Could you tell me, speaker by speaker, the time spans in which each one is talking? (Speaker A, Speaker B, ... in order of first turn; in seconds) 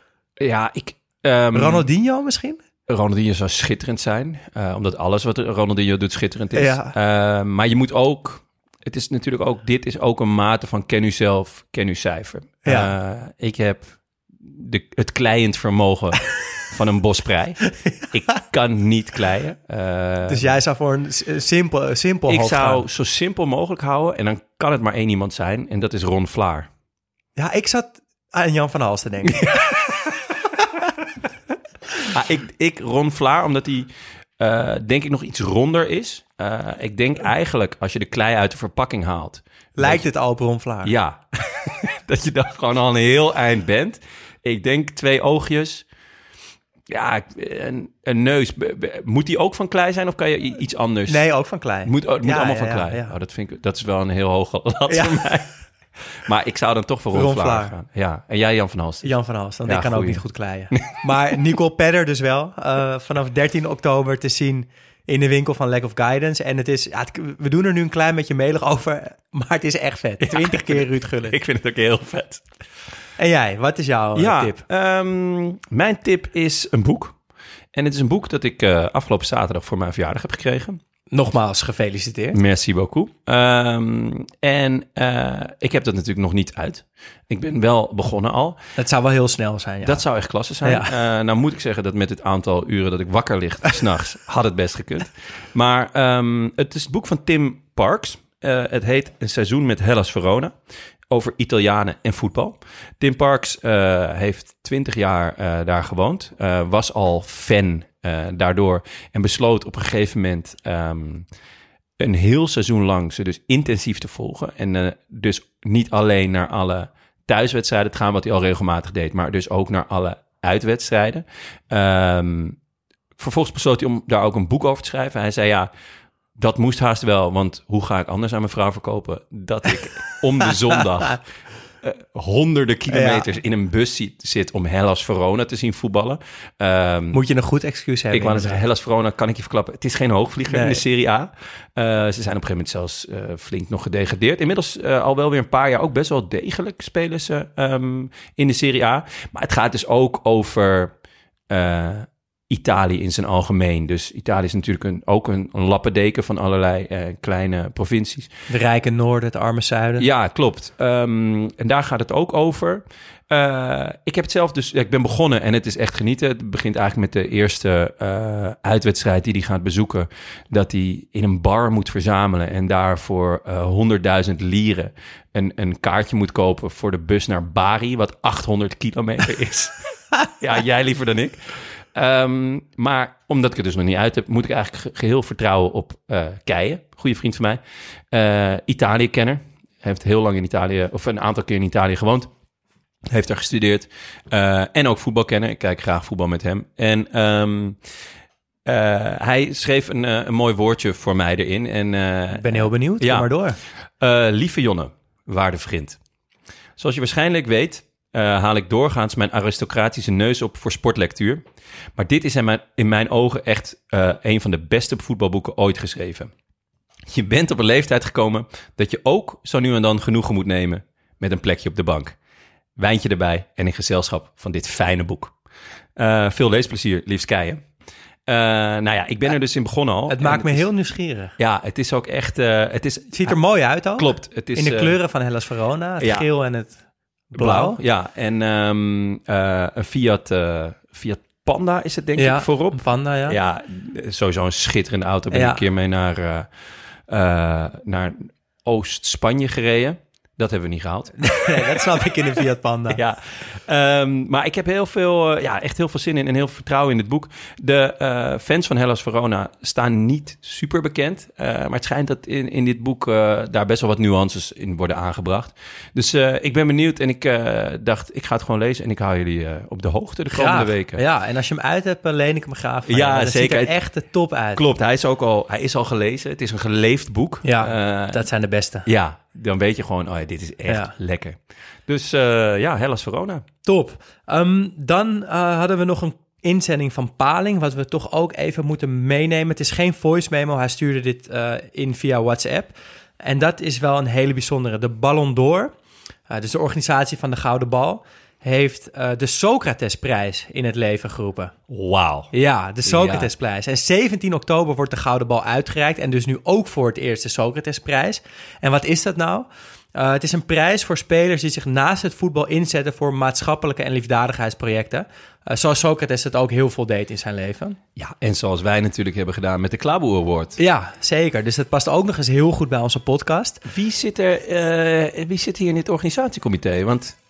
Speaker A: 0.4-1.9, 2.9-13.9, 14.4-20.6, 22.3-26.7, 29.3-29.7, 32.1-40.1, 40.8-45.9, 46.9-51.2, 51.8-55.5, 56.2-59.1, 59.6-61.3, 70.2-72.4, 74.2-77.2, 77.7-80.8, 82.3-88.6, 89.8-100.5, 101.1-111.3, 112.0-122.6, 123.2-125.7, 126.4-131.2, 131.8-137.2, 138.1-150.9, 151.5-158.3, 160.0-181.4, 181.9-187.6, 188.1-192.3, 193.1-197.8, 198.7-203.3, 204.0-206.0, 206.8-211.4, 212.0-216.3, 217.1-222.2, 222.8-225.3, 226.0-227.6, 228.3-230.7, 231.4-233.4, 234.0-235.0, 236.0-236.3, 237.3-246.5, 247.1-251.9, 252.9-271.0, 272.9-273.7, 274.5-278.3, 278.9-281.4, 281.9-283.4, 301.7-302.3, 302.8-303.3, 318.0-320.6, 323.7-327.1
Speaker B: 1.5-2.6, 6.5-7.0, 12.6-12.9, 20.3-22.9, 27.4-29.6, 39.8-41.0, 51.1-53.1, 54.9-55.3, 57.1-57.8, 59.0-71.4, 73.2-74.6, 81.1-82.4, 88.8-90.0, 90.6-90.9, 132.9-133.3, 137.1-138.6, 140.5-140.8, 158.5-160.1, 202.3-203.6, 230.1-231.4, 233.1-236.8, 237.3-237.8, 242.2-243.4, 245.3-245.6, 251.2-253.0, 270.3-274.6, 277.4-278.9, 283.6-295.7, 296.3-301.5, 302.3-317.8, 320.6-323.6